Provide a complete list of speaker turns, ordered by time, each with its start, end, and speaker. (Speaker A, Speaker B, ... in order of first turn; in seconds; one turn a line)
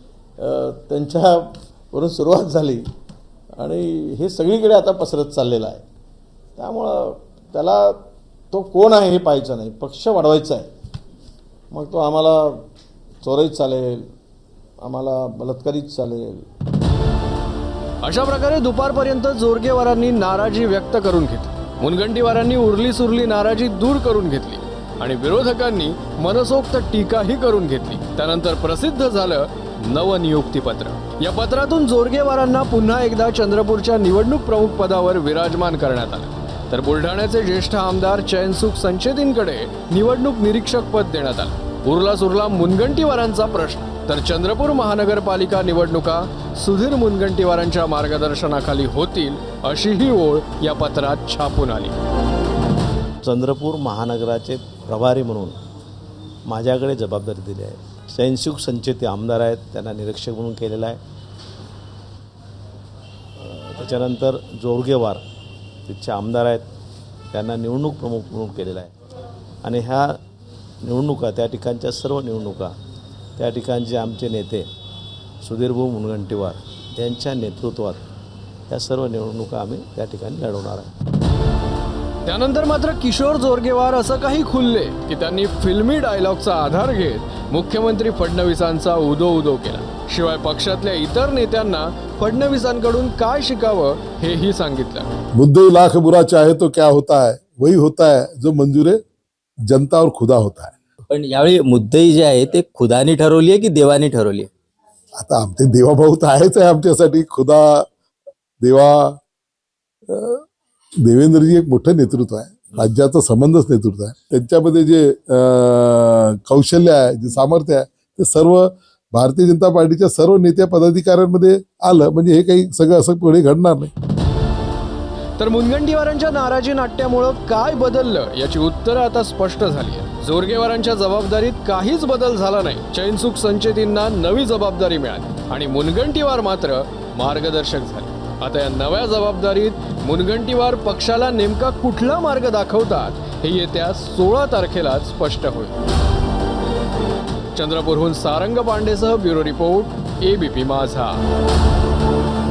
Speaker A: 0.4-2.9
Speaker A: 3.6-5.8
Speaker A: 6.6-10.7
Speaker A: 11.7-12.7
Speaker A: 13.2-14.1
Speaker A: 14.8-16.5
Speaker B: 18.0-51.9
Speaker C: 53.2-55.6
Speaker C: 56.5-61.0
Speaker C: 63.5-65.2
Speaker C: 65.9-66.7
Speaker C: 67.3-68.9
Speaker C: 69.6-70.2
Speaker C: 70.8-72.7
Speaker C: 73.4-74.7
Speaker C: 75.4-78.0
Speaker C: 78.7-80.9
Speaker B: 82.2-95.1
Speaker D: 95.3-99.0
Speaker D: 99.6-100.8
Speaker E: 101.1-104.5
Speaker D: 105.2-107.9
Speaker D: 108.6-109.2
Speaker D: 110.1-110.5
Speaker D: 111.0-123.9
Speaker B: 125.4-145.7
Speaker B: 147.5-151.2